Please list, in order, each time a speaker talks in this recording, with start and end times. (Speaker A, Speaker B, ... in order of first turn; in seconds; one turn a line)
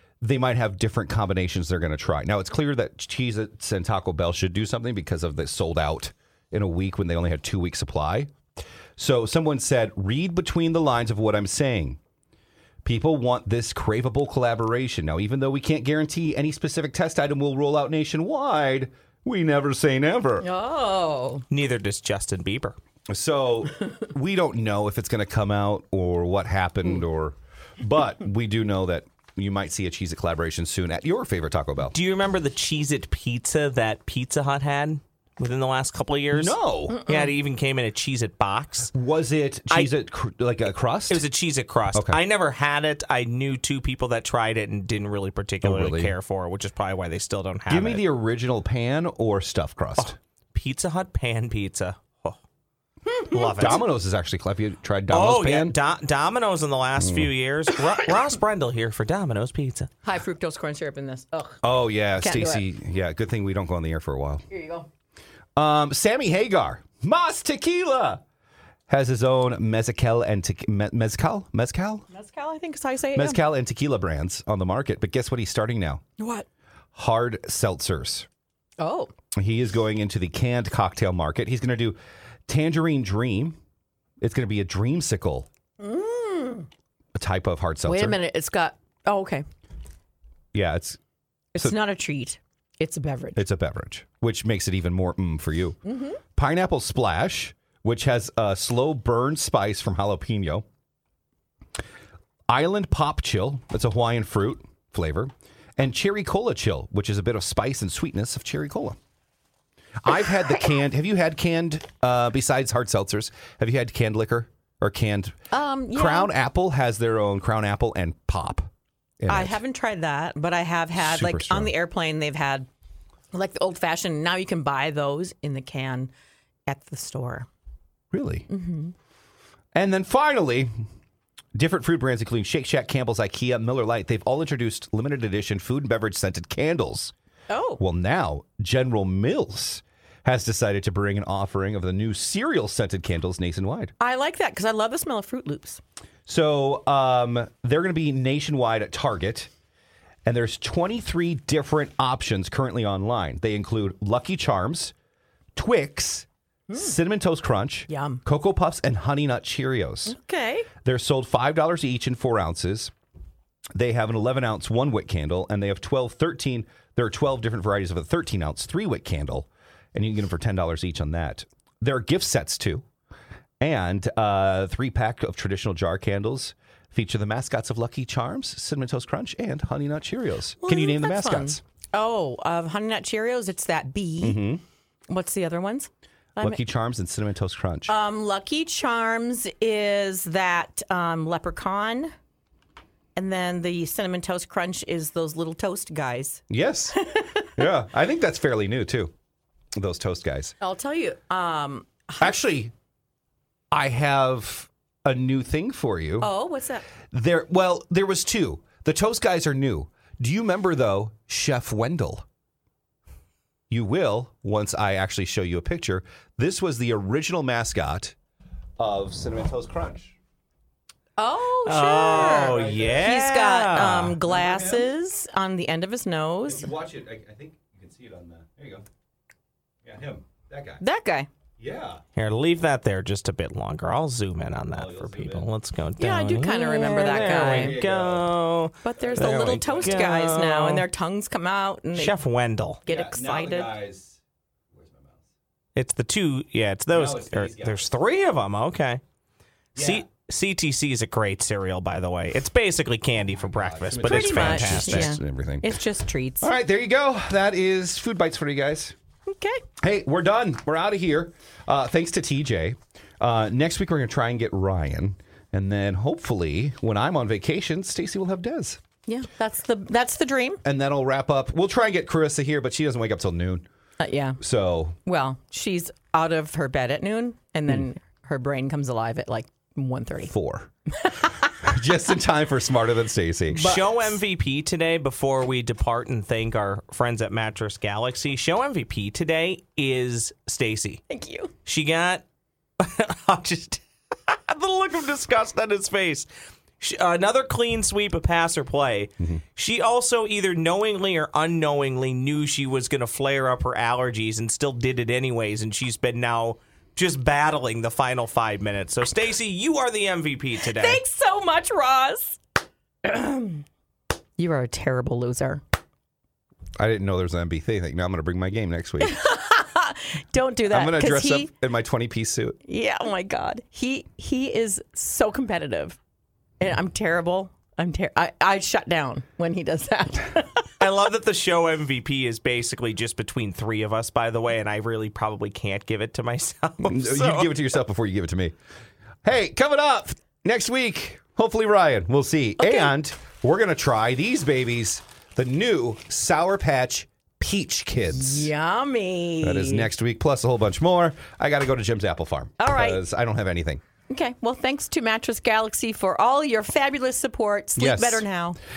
Speaker A: 0.2-8.3
Speaker A: 9.0-12.0
Speaker A: 12.8-20.5
Speaker B: 20.4-21.4
Speaker C: 21.5-22.8
Speaker A: 23.1-31.9
Speaker C: 31.9-38.9
Speaker A: 36.3-37.0
Speaker B: 37.0-37.3
Speaker A: 38.9-41.2
Speaker C: 41.1-48.0
Speaker A: 41.9-42.2
Speaker A: 45.6-46.1
Speaker A: 47.7-50.1
Speaker C: 50.0-52.4
Speaker B: 53.0-53.7
Speaker C: 53.2-53.8
Speaker A: 53.4-55.8
Speaker C: 55.1-59.9
Speaker A: 57.0-57.3
Speaker B: 60.0-62.6
Speaker A: 61.6-64.5
Speaker B: 64.5-64.9
Speaker A: 65.5-68.2
Speaker A: 68.9-72.0
Speaker B: 72.1-73.4
Speaker A: 73.1-76.0
Speaker B: 76.2-76.5
Speaker A: 76.9-78.3
Speaker B: 78.8-79.1
Speaker A: 79.3-83.6
Speaker A: 84.2-85.5
Speaker B: 85.8-86.7
Speaker A: 87.1-88.2
Speaker B: 87.8-89.4
Speaker A: 90.5-91.0
Speaker B: 91.5-93.4
Speaker A: 93.3-95.8
Speaker B: 95.8-96.2
Speaker A: 96.3-100.6
Speaker A: 102.5-109.0
Speaker A: 110.0-115.4
Speaker B: 115.5-116.3
Speaker A: 115.9-118.7
Speaker A: 119.2-119.6
Speaker B: 119.3-122.7
Speaker A: 121.0-121.7
Speaker B: 123.3-126.1
Speaker B: 126.7-127.5
Speaker A: 128.1-128.5
Speaker B: 128.5-128.9
Speaker A: 129.7-130.8
Speaker A: 131.5-137.1
Speaker B: 137.5-137.8
Speaker A: 137.8-143.9
Speaker B: 144.0-145.8
Speaker A: 146.3-149.5
Speaker A: 150.2-154.9
Speaker A: 155.5-160.2
Speaker B: 156.7-156.9
Speaker B: 157.9-158.2
Speaker B: 160.1-160.7
Speaker A: 160.8-162.9
Speaker A: 163.7-172.8
Speaker A: 173.6-181.6
Speaker B: 180.6-184.4
Speaker A: 184.2-184.6
Speaker B: 185.1-186.6
Speaker A: 186.4-187.9
Speaker B: 187.9-192.1
Speaker B: 193.2-197.7
Speaker A: 196.5-197.0
Speaker A: 197.6-199.1
Speaker A: 199.7-200.5
Speaker B: 200.6-202.4
Speaker A: 202.2-202.7
Speaker A: 203.7-206.3
Speaker B: 206.2-206.9
Speaker A: 207.1-212.2
Speaker A: 213.7-218.2
Speaker A: 218.8-220.1
Speaker B: 221.2-226.7
Speaker C: 221.6-224.2
Speaker A: 222.1-223.2
Speaker A: 224.2-224.8
Speaker A: 226.5-228.8
Speaker A: 229.8-230.8
Speaker B: 230.8-231.3
Speaker A: 231.6-232.0
Speaker C: 232.2-240.9
Speaker A: 234.7-235.5
Speaker B: 236.0-237.8
Speaker A: 237.2-238.3
Speaker B: 238.8-242.1
Speaker A: 239.0-240.1
Speaker C: 241.9-242.8
Speaker B: 242.8-243.7
Speaker A: 242.9-244.2
Speaker A: 244.7-245.2
Speaker C: 245.8-249.0
Speaker A: 246.9-247.9
Speaker A: 249.8-250.0
Speaker C: 249.8-255.2
Speaker A: 253.3-255.8
Speaker B: 254.0-256.5
Speaker A: 256.4-258.9
Speaker B: 259.2-259.6
Speaker A: 259.8-268.8
Speaker B: 269.1-270.6
Speaker A: 270.6-273.6
Speaker B: 274.0-274.4
Speaker A: 274.4-275.0
Speaker B: 275.0-280.3
Speaker A: 280.3-280.7
Speaker B: 281.0-281.5
Speaker A: 281.4-283.8
Speaker B: 283.5-284.2
Speaker C: 283.5-291.0
Speaker B: 291.1-291.5
Speaker C: 291.6-292.2
Speaker C: 292.8-296.3
Speaker C: 296.8-311.0
Speaker B: 310.6-312.4
Speaker B: 313.0-313.6
Speaker B: 314.4-315.6
Speaker A: 316.8-319.2
Speaker B: 319.0-321.5
Speaker A: 320.7-322.6
Speaker B: 322.6-326.0
Speaker B: 326.6-330.7
Speaker C: 330.8-337.5
Speaker A: 336.8-338.5
Speaker A: 339.2-348.5
Speaker B: 342.6-342.9
Speaker B: 348.1-349.9
Speaker A: 349.4-353.8
Speaker B: 352.6-353.0
Speaker B: 354.1-358.6
Speaker A: 357.8-358.2